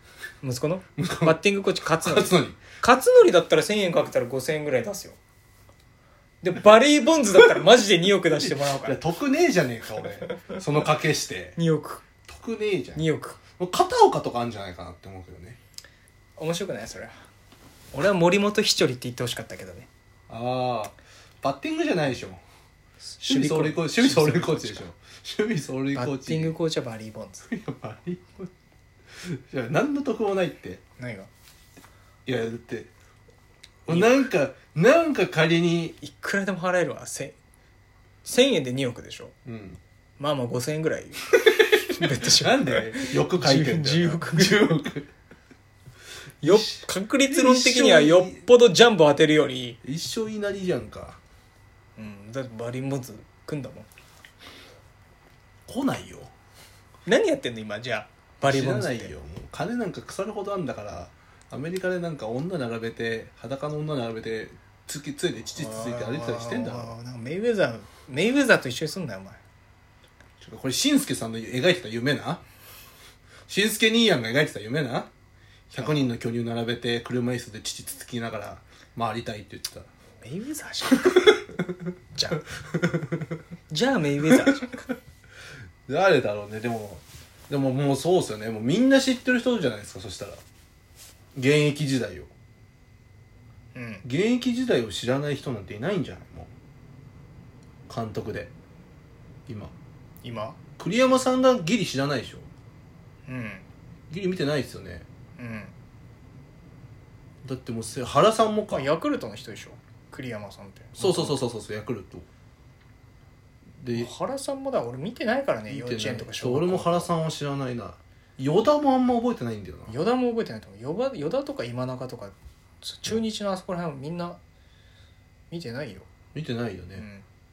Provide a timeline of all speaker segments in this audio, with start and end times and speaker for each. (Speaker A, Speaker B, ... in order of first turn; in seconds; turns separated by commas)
Speaker A: 0.4-5.2, Speaker B: 1.0-1.4, Speaker B: 2.0-2.6, Speaker A: 6.4-9.0, Speaker B: 8.3-11.6, Speaker A: 11.6-12.0, Speaker B: 12.2-13.0, Speaker A: 12.9-13.4, Speaker B: 13.6-15.6, Speaker A: 16.4-17.1, Speaker A: 17.9-19.9, Speaker B: 20.3-22.4, Speaker A: 23.2-24.9, Speaker B: 23.2-26.5, Speaker A: 25.9-27.5, Speaker B: 27.5-28.5, Speaker B: 29.2-30.8, Speaker A: 31.0-31.3, Speaker B: 32.2-32.9, Speaker B: 33.9-36.0, Speaker A: 33.9-34.2, Speaker A: 36.0-37.4, Speaker A: 38.2-39.3, Speaker B: 39.5-39.8, Speaker A: 40.2-41.3, Speaker B: 41.7-45.1, Speaker A: 41.9-44.7, Speaker A: 46.4-49.8, Speaker B: 46.4-48.5, Speaker B: 49.8-51.2, Speaker A: 52.0-53.9, Speaker B: 55.7-56.3, Speaker A: 57.0-59.1, Speaker B: 58.4-67.0, Speaker A: 65.5-69.4, Speaker B: 70.4-72.4, Speaker B: 73.5-75.1, Speaker B: 75.7-79.9, Speaker A: 75.8-76.1, Speaker A: 80.2-81.3, Speaker A: 82.1-82.4, Speaker B: 82.8-83.1, Speaker A: 83.7-84.8, Speaker B: 85.9-90.4, Speaker B: 91.3-92.3, Speaker A: 93.7-94.0, Speaker B: 94.0-96.5, Speaker B: 97.9-98.5, Speaker B: 99.5-99.7, Speaker A: 100.2-100.6, Speaker B: 100.8-102.5, Speaker A: 103.3-103.7, Speaker B: 104.1-105.0, Speaker A: 105.4-105.7, Speaker B: 107.4-108.9, Speaker A: 108.7-111.4, Speaker B: 111.0-112.2, Speaker B: 113.8-114.1, Speaker A: 113.9-117.1, Speaker B: 115.7-119.9, Speaker A: 119.9-124.4, Speaker A: 125.5-126.1, Speaker B: 126.3-127.0, Speaker A: 127.0-127.2